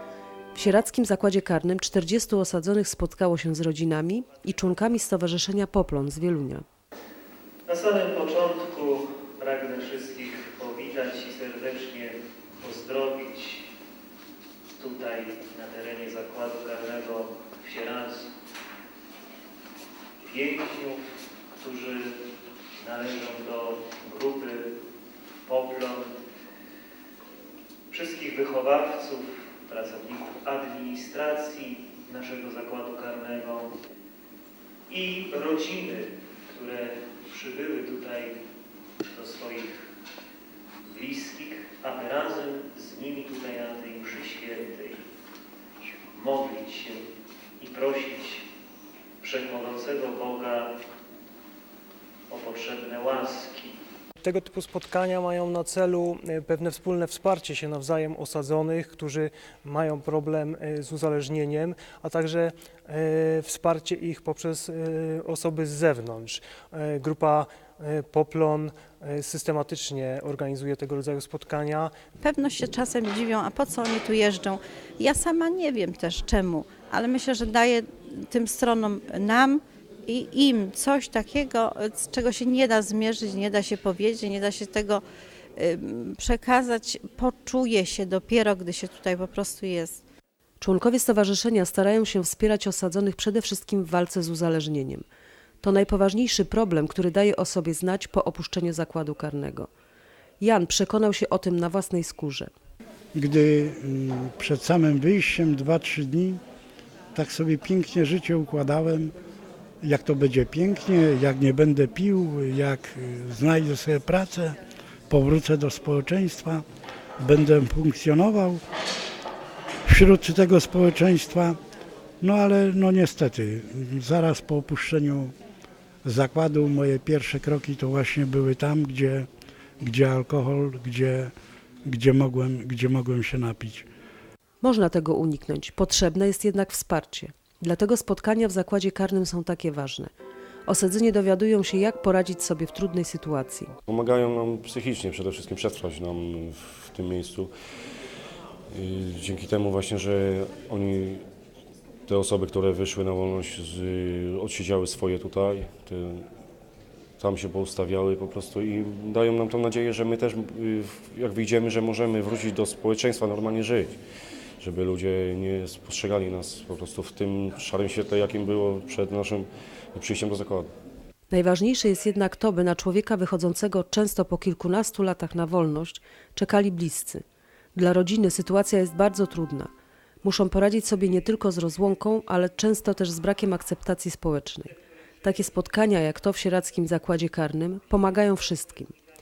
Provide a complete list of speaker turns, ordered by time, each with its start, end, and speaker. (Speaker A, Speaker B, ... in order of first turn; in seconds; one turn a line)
Speaker A: 0.5-6.6
Speaker B: 7.7-13.7
Speaker B: 14.8-18.3
Speaker B: 20.2-21.0
Speaker B: 21.6-22.1
Speaker B: 22.8-24.7
Speaker B: 25.4-26.1
Speaker B: 27.9-33.7
Speaker B: 34.9-38.4
Speaker B: 39.0-39.8
Speaker B: 40.9-45.0
Speaker B: 46.1-47.0
Speaker B: 47.6-48.5
Speaker B: 49.2-50.7
Speaker B: 52.3-53.8
Speaker C: 54.2-71.9
Speaker D: 72.2-85.0
Speaker D: 85.5-90.0
Speaker A: 90.6-95.0
Speaker A: 95.6-99.7
Speaker A: 100.4-102.5
Speaker E: 103.1-106.4
Speaker E: 107.1-109.1
Speaker E: 109.8-114.6
Speaker E: 115.1-116.6
Speaker E: 117.2-118.6
Speaker E: 119.8-121.6
Speaker E: 122.2-125.3
Speaker E: 126.0-129.3
Speaker E: 129.8-131.3
Speaker E: 131.8-133.8
Speaker A: 134.6-140.1
Speaker A: 140.7-143.7
Speaker F: 143.9-147.5
Speaker F: 148.7-151.2
Speaker F: 152.1-156.3
Speaker F: 157.2-164.0
Speaker F: 164.6-170.7
Speaker A: 171.3-177.2
Speaker A: 177.7-179.7
Speaker A: 180.2-188.9